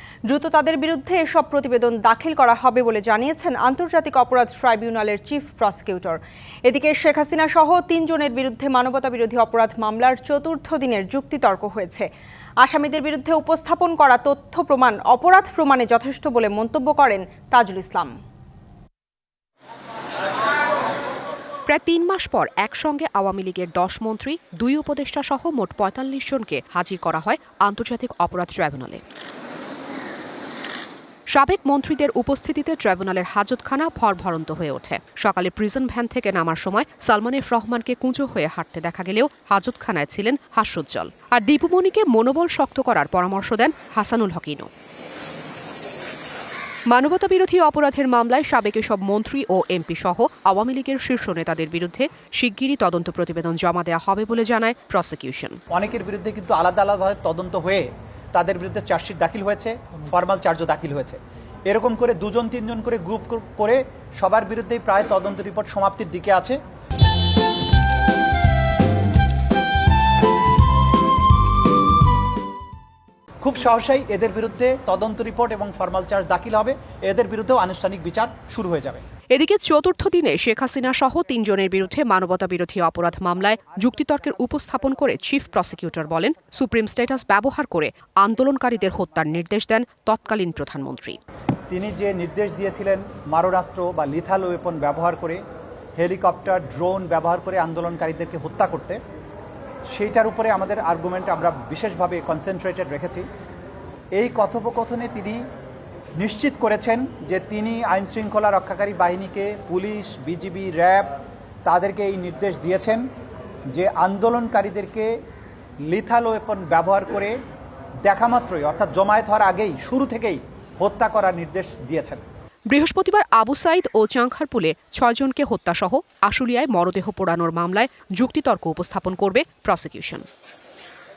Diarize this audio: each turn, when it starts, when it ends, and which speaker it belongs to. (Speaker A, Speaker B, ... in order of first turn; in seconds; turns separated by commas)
Speaker A: 0.3-12.1, Speaker A: 12.6-18.1, Speaker B: 21.7-29.0, Speaker B: 31.3-44.7, Speaker B: 46.9-55.6, Speaker C: 55.7-66.6, Speaker C: 73.4-79.0, Speaker B: 79.3-91.2, Speaker C: 91.7-95.4, Speaker C: 96.0-99.0, Speaker C: 99.9-103.2, Speaker C: 104.1-105.4, Speaker C: 106.2-111.1, Speaker C: 111.7-113.0, Speaker C: 113.7-115.1, Speaker C: 115.9-117.3, Speaker C: 118.0-122.2, Speaker B: 122.7-130.2